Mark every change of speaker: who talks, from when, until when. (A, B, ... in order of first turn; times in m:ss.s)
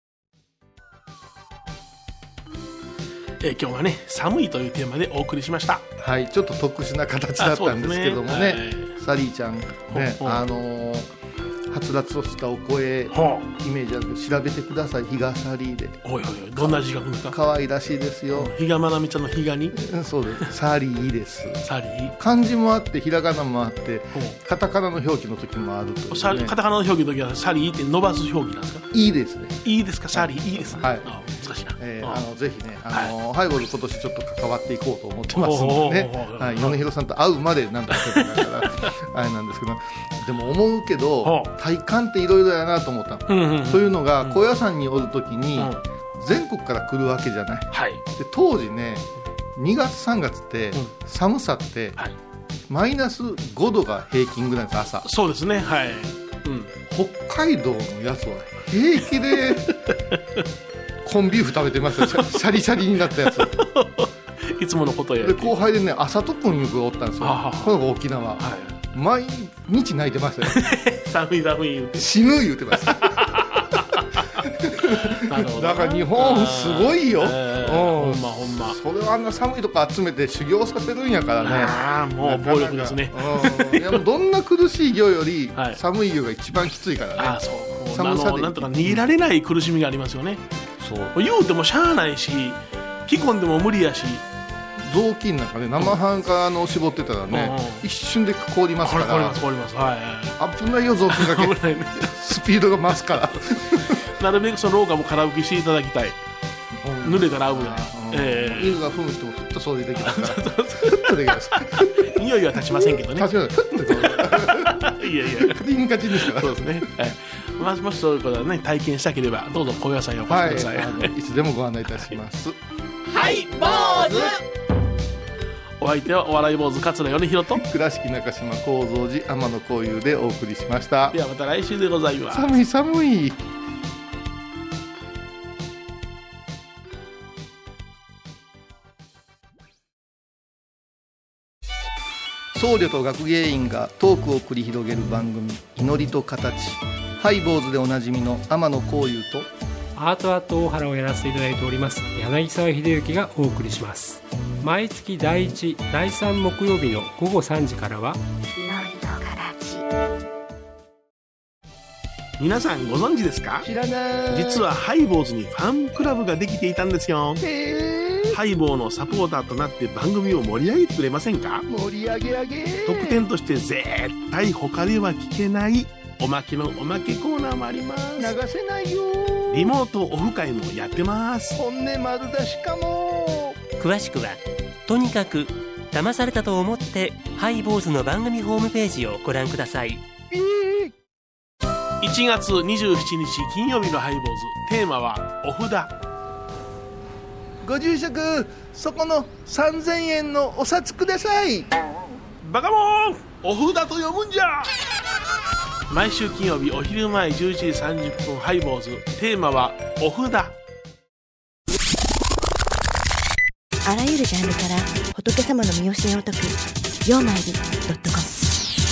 0:03.4-0:05.8 A
0:06.0-0:11.1 B
0:07.4-0:09.0 A
0:09.9-0:10.4 A
0:11.7-0:16.0 B
0:13.1-0:13.5 A
0:16.0-0:17.4 A
0:16.6-0:18.5 B
0:18.4-0:19.8 A
0:19.8-0:21.6 B
0:21.6-0:22.1 A
0:22.2-0:26.6 B
0:24.1-0:24.4 A
0:26.1-0:28.9 A
0:28.9-0:31.3 B
0:29.6-0:32.2 A
0:31.8-0:52.0 B
0:35.3-0:36.8 A
0:37.9-0:38.9 A
0:41.2-0:41.5 A
0:43.3-0:44.4 A
0:45.6-0:45.8 A
0:47.7-0:48.0 A
0:52.7-0:55.0 B
0:55.0-0:56.7 A
0:56.9-0:59.7 B
1:01.0-1:03.5 B
1:02.0-1:02.4 A
1:03.3-1:05.5 A
1:05.2-1:10.6 B
1:07.2-1:07.8 A
1:08.4-1:08.8 A
1:10.4-1:12.1 A
1:12.0-1:13.7 B
1:12.9-1:18.8 A
1:14.4-1:29.0 B
1:21.4-1:24.0 A
1:25.6-1:25.8 A
1:27.2-1:30.4 A
1:30.8-1:31.2 B
1:31.2-1:34.2 A
1:34.8-1:39.4 B
1:37.3-1:37.8 A
1:38.8-1:40.4 A
1:40.4-1:44.0 B
1:41.1-1:42.1 A
1:44.1-1:46.2 A
1:46.8-1:52.1 B
1:47.0-1:48.8 A
1:50.0-1:55.6 A
1:52.6-1:56.8 B
1:56.1-2:01.1 A
2:00.3-2:02.6 B
2:03.2-2:04.3 A
2:05.8-2:07.6 A
2:07.5-2:11.2 B
2:11.1-2:12.5 A
2:12.3-2:13.4 B
2:22.5-2:29.5 B
2:30.0-2:38.2 C
2:38.6-2:39.8 D
2:42.4-2:43.7 A
2:43.6-2:44.6 B
2:44.3-2:47.4 A
2:47.4-2:48.4 B
2:48.3-2:51.6 A
2:51.7-2:53.2 B
2:52.9-2:58.4 A
2:58.2-2:59.8 B
2:59.5-3:01.6 A
3:01.6-3:03.6 B
3:03.8-3:10.0 E
3:10.3-3:10.9 B
3:12.0-3:15.9 A
3:17.6-3:21.7 B
3:22.4-3:24.7 A
3:25.9-3:30.6 A
3:33.8-3:38.3 D